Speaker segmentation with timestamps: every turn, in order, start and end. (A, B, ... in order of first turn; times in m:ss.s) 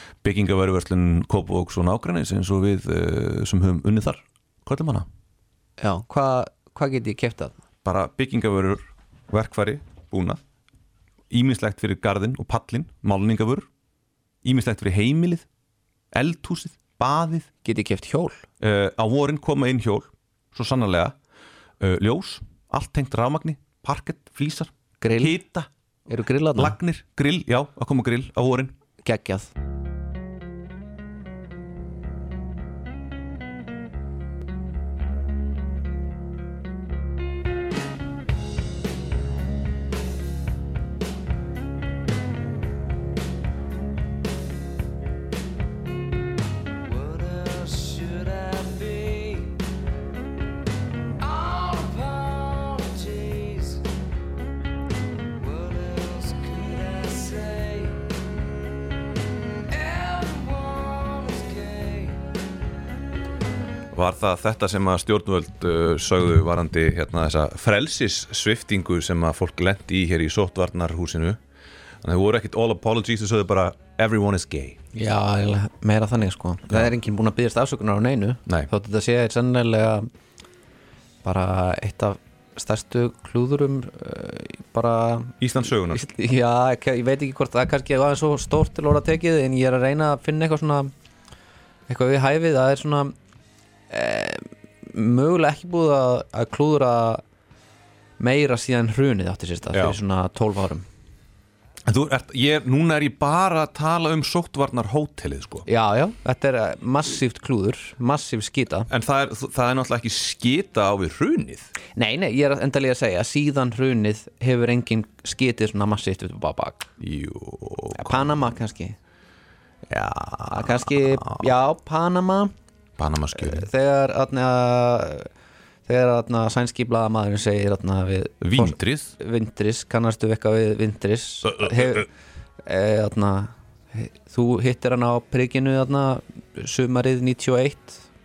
0:00.2-0:05.1 A
0:05.8-0:07.6 B
0:07.8-0:10.4 A
0:11.3-0:13.7 A
0:14.4-0:15.5 A
0:16.1-0:17.5 A
0:17.6-0:18.4 B
0:18.6-0:21.2 A
0:21.8-0:25.7 A
0:25.0-0:25.4 B
0:26.1-0:26.8 B
0:26.6-0:28.8 A
0:29.0-0:29.5 B
0:46.8-0:49.6 C
0:51.2-0:53.9 C
0:55.4-0:58.3 C
0:59.7-1:02.4 C
1:03.9-1:11.4 A
1:12.0-1:14.8 A
1:14.9-1:20.1 B
1:21.2-1:30.9 B
1:25.4-1:26.0 A
1:31.9-1:33.1 B
1:33.9-1:37.2 B
1:38.2-1:40.8 B
1:41.9-1:45.7 A
1:45.7-1:48.9 B
1:48.9-1:51.7 A
1:52.0-1:56.9 B
1:57.0-1:58.3 A
1:58.0-1:59.0 B
1:59.9-2:01.5 A
2:00.5-2:02.5 B
2:03.0-2:03.7 A
2:03.3-2:05.3 B
2:05.9-2:12.1 B
2:08.4-2:09.1 A
2:11.5-2:12.0 A
2:12.6-2:18.0 B